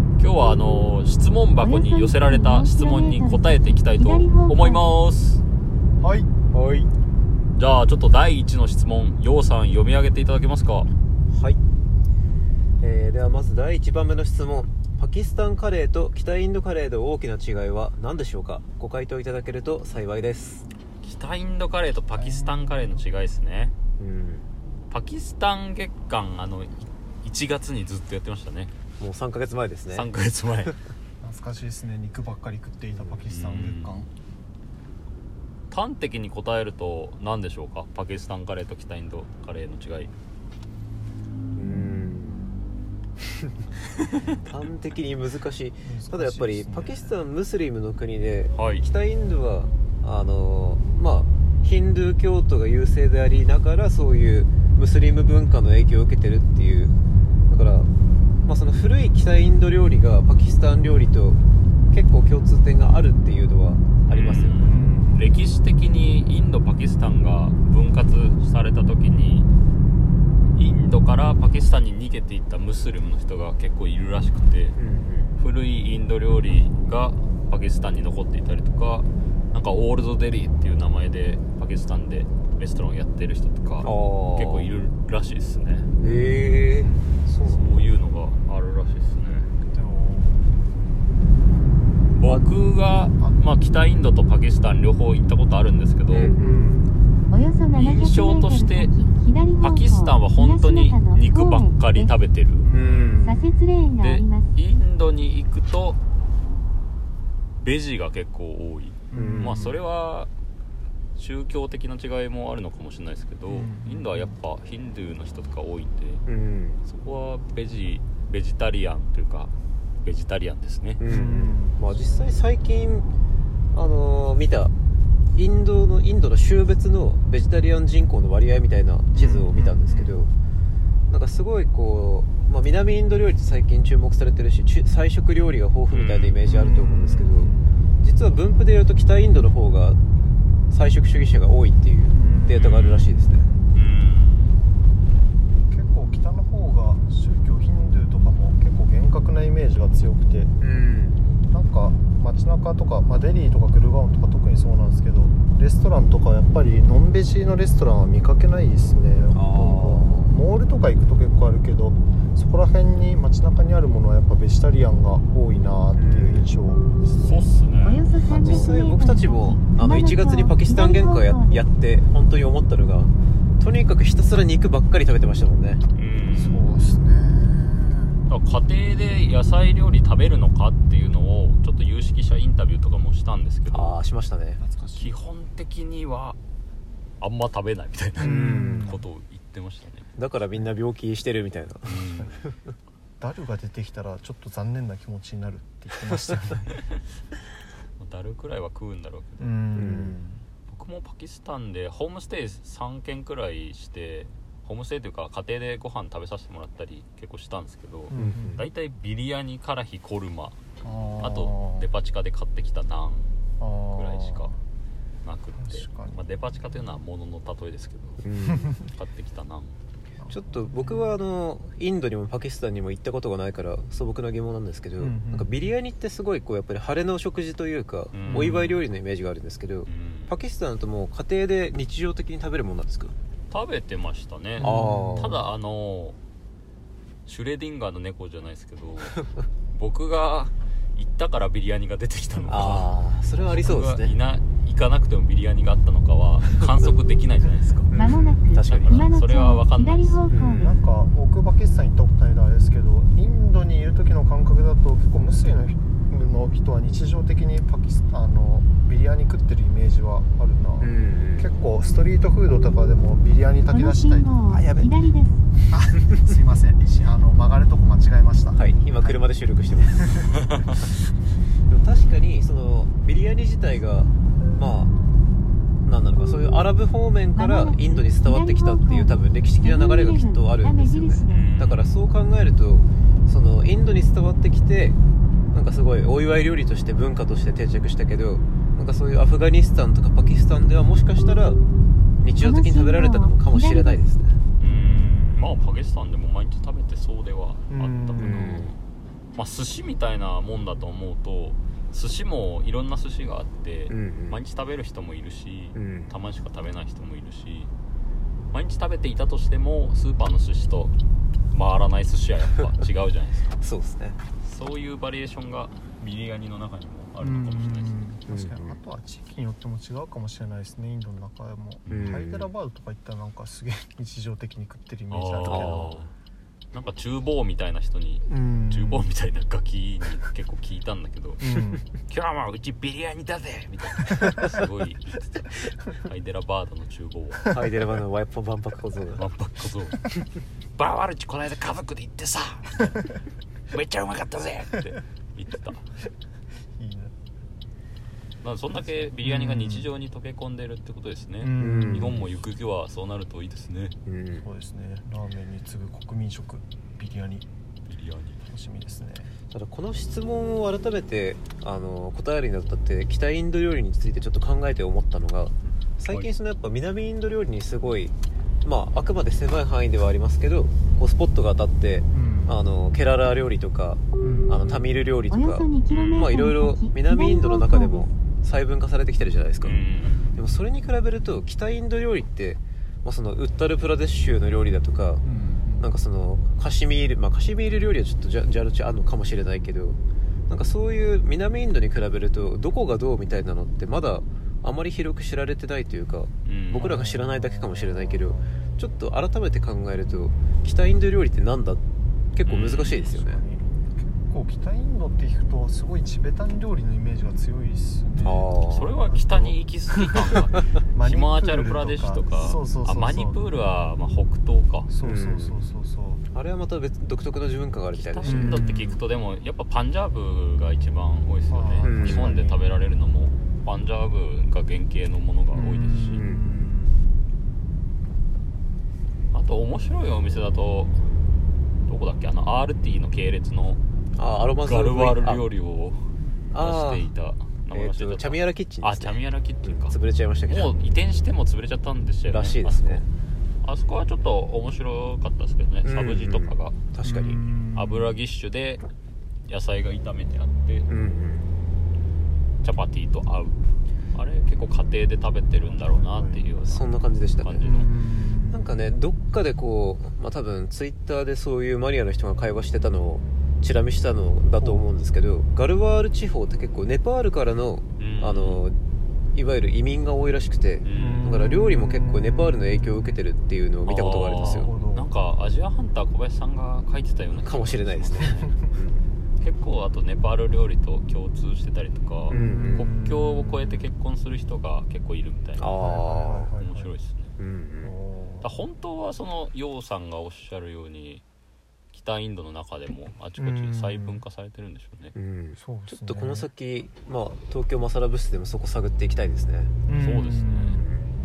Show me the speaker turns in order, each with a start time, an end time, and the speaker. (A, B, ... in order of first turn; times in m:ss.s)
0:00.2-0:05.4 A
0:01.6-0:04.8 B
0:06.0-0:06.3 C
0:06.5-0:06.9 D
0:07.5-0:10.9 A
0:11.3-0:11.6 D
0:12.8-0:20.6 D
0:21.0-0:23.7 A
0:22.1-0:23.0 C
0:24.0-0:24.4 D
0:24.9-0:28.7 A
0:29.0-0:30.1 D
0:29.9-0:30.8 A
0:31.2-0:34.1 C
0:32.9-0:33.2 D
0:33.3-0:34.1 A
0:35.7-0:40.1 A
0:41.5-0:42.4 D
0:43.2-0:43.5 D
0:44.5-0:57.0 D
0:45.8-0:47.0 C
0:48.6-0:48.8 A
0:57.5-0:57.9 D
0:58.4-1:01.4 D
1:01.9-1:04.6 D
1:04.1-1:09.5 A
1:04.6-1:05.2 C
1:10.6-1:14.8 A
1:14.8-1:15.4 D
1:15.4-1:25.9 A
1:23.8-1:24.7 D
1:26.0-1:27.9 D
1:26.0-1:27.1 C
1:27.4-1:29.5 A
1:29.6-1:30.5 C
1:32.1-1:36.3 A
1:33.2-1:33.5 C
1:36.1-1:36.6 D
1:36.4-1:36.9 C
1:37.3-1:42.1 B
1:37.8-1:38.9 A
1:39.6-1:42.7 A
1:42.6-1:43.6 C
1:42.7-1:43.4 D
1:43.3-1:44.5 B
1:44.0-1:46.0 A
1:47.6-1:50.3 A
1:49.1-1:49.8 C
1:49.1-1:49.6 D
1:51.2-1:56.2 A
1:53.5-1:54.4 C
1:56.3-1:56.8 D
1:56.8-2:01.0 A
2:01.0-2:03.1 D
2:01.0-2:01.8 C
2:03.7-2:04.7 D
2:05.3-2:10.3 D
2:09.1-2:10.2 C
2:11.1-2:17.5 D
2:15.9-2:16.4 A
2:16.4-2:17.7 C
2:18.0-2:20.0 D
2:20.7-2:23.4 D
2:22.1-2:23.7 C
2:22.6-2:23.1 A
2:23.7-2:24.6 A
2:25.7-2:30.5 C
2:30.6-2:31.2 D
2:31.5-2:47.5 C
2:39.3-2:40.3 D
2:46.0-2:46.5 D
2:47.2-2:48.1 A
2:47.8-2:51.6 B
2:48.3-2:55.8 D
2:55.9-2:56.7 A
2:56.3-2:58.2 C
2:58.3-3:04.0 A
3:03.7-3:04.6 D
3:04.6-3:05.1 C
3:04.9-3:06.4 A
3:07.2-3:10.1 A
3:08.2-3:09.0 C
3:08.2-3:08.9 D
3:10.2-3:12.2 D
3:11.8-3:12.5 A
3:13.2-3:16.7 C
3:18.0-3:19.6 A
3:19.4-3:20.4 C
3:19.7-3:20.2 D
3:20.7-3:30.6 A
3:28.1-3:28.6 C
3:28.1-3:28.6 D
3:30.8-3:31.9 C
3:31.2-3:33.3 A
3:33.6-3:34.6 C
3:33.9-3:34.5 A
3:35.2-3:38.2 A
3:35.6-3:36.2 C
3:38.2-3:38.7 D
3:38.8-3:39.8 A
3:40.2-3:41.1 C
3:40.3-3:53.2 D
3:45.0-3:45.5 C
3:48.1-3:48.8 A
3:48.3-3:48.8 C
3:49.8-3:50.4 A
3:53.5-3:56.2 A
3:54.6-3:55.4 C
3:54.6-3:55.4 D
3:57.2-4:07.9 A
4:02.5-4:04.2 D
4:07.9-4:08.5 C
4:07.9-4:10.7 B
4:08.5-4:09.1 D
4:08.6-4:10.3 A
4:10.3-4:10.8 D
4:10.5-4:24.3 C
4:20.8-4:21.5 D
4:23.7-4:25.4 B
4:24.5-4:24.9 D
4:25.7-4:29.2 C
4:28.5-4:30.3 D
4:30.0-4:30.4 C
4:31.7-4:34.9 D
4:35.8-4:45.0 D
4:37.4-4:39.1 B
4:39.6-4:41.4 B
4:41.3-4:42.0 A
4:45.5-4:51.6 D
4:52.2-4:54.4 D
4:52.4-4:54.0 B
4:54.6-4:58.7 A
4:54.6-4:55.6 C
4:57.7-4:58.6 C
4:58.2-4:58.8 D
4:59.3-5:07.7 A
5:03.9-5:04.4 D
5:05.7-5:06.1 D
5:08.5-5:11.0 A
5:11.5-5:13.6 A
5:13.6-5:14.2 D
5:14.4-5:18.0 A
5:17.2-5:26.0 C
5:18.3-5:18.8 D
5:21.8-5:22.2 A
5:21.9-5:22.5 D
5:25.1-5:26.1 A
5:25.5-5:25.9 D
5:26.7-5:31.4 A
5:28.2-5:29.1 C
5:31.4-5:31.8 C
5:31.9-5:37.5 A
5:37.5-5:39.2 D
5:39.2-5:40.0 A
5:40.8-5:43.0 A
5:43.7-5:45.8 A
5:46.8-5:47.1 C
5:48.4-5:53.9 A
5:49.2-5:49.9 C
5:51.4-5:52.2 C
5:51.6-5:52.3 D
5:54.0-5:54.4 D
5:54.4-5:57.4 C
5:57.9-5:58.4 A
5:58.4-5:59.3 C
5:59.5-6:19.8 D
6:12.1-6:12.5 C
6:14.2-6:14.8 C
6:15.3-6:18.1 B
6:15.9-6:16.3 A
6:19.6-6:20.3 A
6:20.4-6:25.2 D
6:25.2-6:25.9 C
6:25.8-6:43.4 D
6:36.4-6:37.0 A
6:36.8-6:38.6 C
6:42.4-6:43.1 A
6:43.0-6:53.4 C
6:48.2-6:48.9 D
6:48.7-6:54.9 A
6:54.9-6:56.2 C
6:55.0-6:55.6 D
6:56.3-6:58.6 D
6:57.9-7:06.2 A
6:58.2-6:59.0 C
7:01.5-7:02.6 C
7:01.8-7:02.3 D
7:05.5-7:07.1 C
7:06.1-7:06.5 D
7:09.3-7:11.0 A
7:11.8-7:13.8 A
7:14.2-7:15.4 D
7:14.6-7:19.9 A
7:16.5-7:17.1 D
7:17.7-7:20.7 D
7:20.5-7:23.0 A
7:22.3-7:23.0 D
7:23.6-7:26.7 A
7:25.8-7:27.4 D
7:27.0-7:28.2 C
7:27.7-7:28.8 A
7:29.4-7:30.9 A
7:30.9-7:31.5 D
7:32.6-7:36.9 A
7:35.6-7:36.5 C
7:36.6-7:37.8 D
7:37.4-7:37.9 A
7:37.6-7:38.6 C
7:38.5-7:48.8 D
7:44.6-7:44.8 C
7:48.0-7:48.6 A
7:49.3-7:54.7 D
7:50.8-7:51.4 A
7:50.9-7:53.2 C
7:53.8-7:58.5 A
7:54.2-7:55.1 C
7:57.3-7:59.1 D
7:58.3-7:58.7 C
7:59.4-8:05.8 A
8:02.3-8:03.8 C
8:02.3-8:02.9 D
8:05.6-8:06.5 D
8:05.8-8:06.9 C
8:06.6-8:07.3 A
8:07.4-8:07.9 D
8:07.8-8:08.5 C
8:08.4-8:11.2 A
8:11.9-8:15.1 A
8:13.4-8:14.2 C
8:15.1-8:19.7 D
8:15.6-8:16.5 C
8:19.8-8:20.8 C
8:20.0-8:20.8 A